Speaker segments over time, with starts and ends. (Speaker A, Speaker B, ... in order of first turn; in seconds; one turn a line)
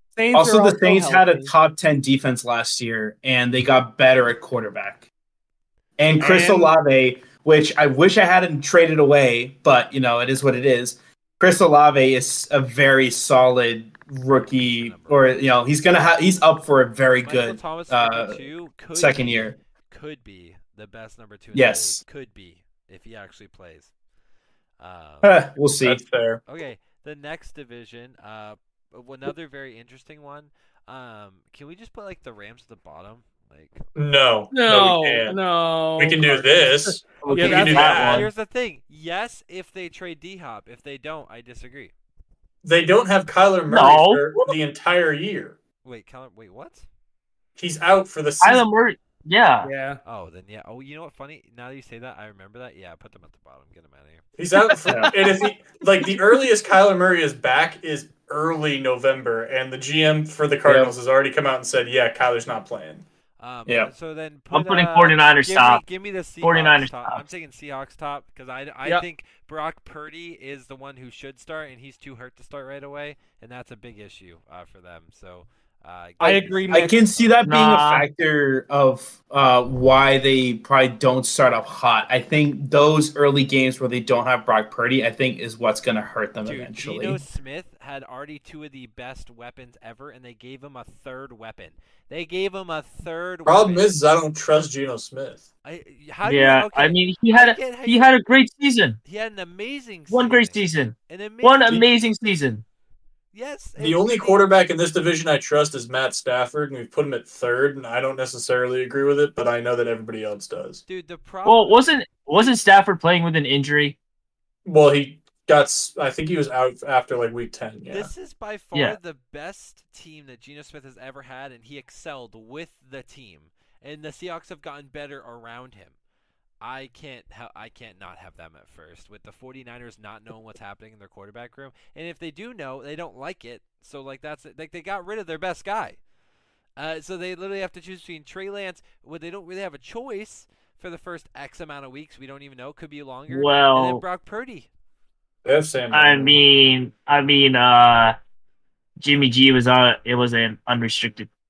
Speaker A: 0.1-1.5
Speaker B: 0.3-5.0
Speaker B: 6.0-18.4
Speaker A: 6.2-6.7
Speaker C: 14.3-15.5
Speaker C: 17.2-23.9
Speaker B: 18.9-19.6
Speaker B: 21.5-22.0
Speaker C: 24.8-25.4
Speaker B: 25.2-26.0
Speaker D: 25.8-26.4
Speaker C: 26.4-33.8
Speaker D: 34.0-35.4
Speaker A: 34.5-38.1
Speaker D: 36.0-38.3
Speaker E: 37.2-38.3
Speaker C: 37.3-41.9
Speaker D: 42.6-45.6
Speaker E: 43.7-44.5
Speaker C: 45.8-46.9
Speaker D: 47.6-48.6
Speaker E: 48.4-49.7
Speaker A: 49.6-50.0
Speaker C: 50.0-54.2
Speaker D: 54.4-63.0
Speaker A: 54.8-55.5
Speaker B: 54.9-55.1
Speaker B: 60.6-60.9
Speaker C: 63.4-77.3
Speaker B: 63.6-63.9
Speaker E: 64.5-65.8
Speaker E: 66.4-67.2
Speaker A: 76.2-77.0
Speaker B: 76.7-87.2
Speaker E: 77.4-78.0
Speaker C: 86.4-94.1
Speaker D: 93.5-95.5
Speaker C: 95.6-98.2
Speaker E: 96.2-99.0
Speaker C: 99.0-101.9
Speaker E: 100.1-102.6
Speaker C: 103.3-104.5
Speaker D: 103.8-110.8
Speaker C: 110.8-111.8
Speaker E: 111.5-114.0
Speaker D: 114.6-118.1
Speaker C: 117.8-126.0
Speaker C: 126.6-136.0
Speaker C: 136.8-144.7
Speaker E: 143.3-144.0
Speaker D: 145.4-146.4
Speaker E: 145.9-148.2
Speaker E: 149.0-151.3